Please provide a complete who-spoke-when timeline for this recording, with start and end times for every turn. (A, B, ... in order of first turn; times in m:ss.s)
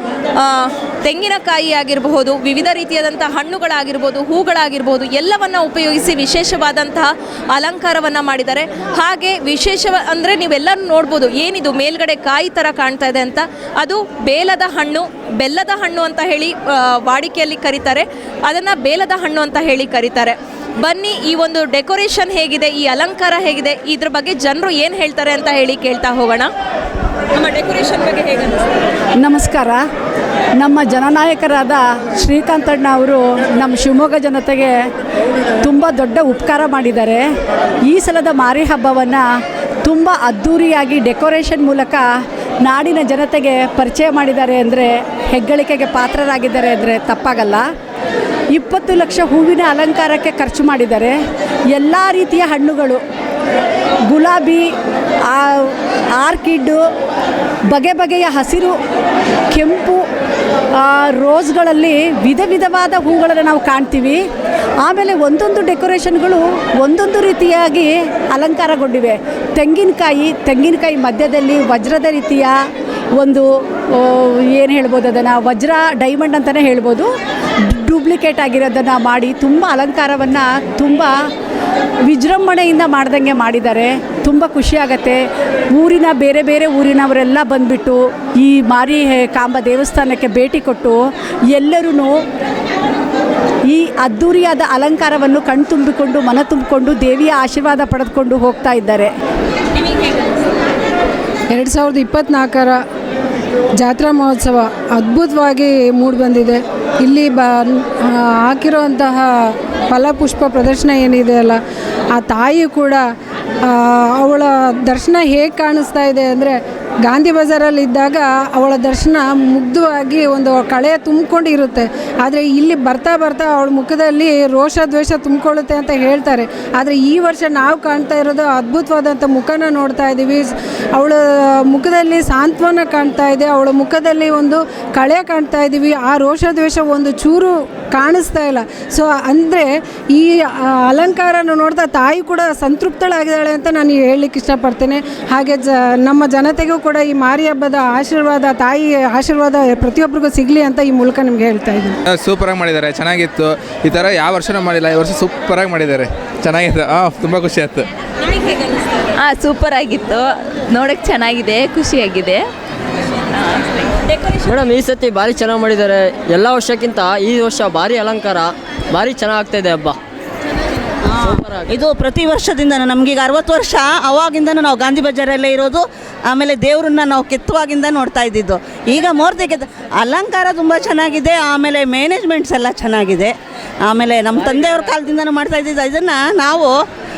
0:00.4-0:26.5 A
0:29.2-0:29.8 B
0:30.6-0:34.8 B
0:35.6-0:37.2 B
0:37.9-0:39.2 B
0:39.8-0:42.1 B
0:42.6-0:47.6 B
0:48.6-0:51.2 B
0:51.7-0:53.0 B
0:54.1-0:54.6 B
0:55.3-0:56.8 B
0:57.7-0:58.7 B
0:59.5-1:00.0 B
1:00.8-1:04.2 B
1:04.8-1:12.5 B
1:13.2-1:13.4 B
1:14.0-1:17.1 B
1:17.7-1:21.1 B
1:22.1-1:25.2 B
1:25.7-1:31.0 B
1:31.5-1:32.2 B
1:33.7-1:39.1 B
1:41.5-1:42.8 C
1:43.8-1:49.2 C
1:49.9-1:51.6 C
1:52.2-1:53.0 C
1:53.7-1:56.5 C
1:57.0-2:31.9 C
2:32.1-2:37.8 D
2:39.4-2:40.1 E
2:40.8-2:42.4 E
2:44.4-2:50.0 F
2:51.1-3:03.3 G
2:51.2-2:51.7 F
3:03.9-3:06.7 G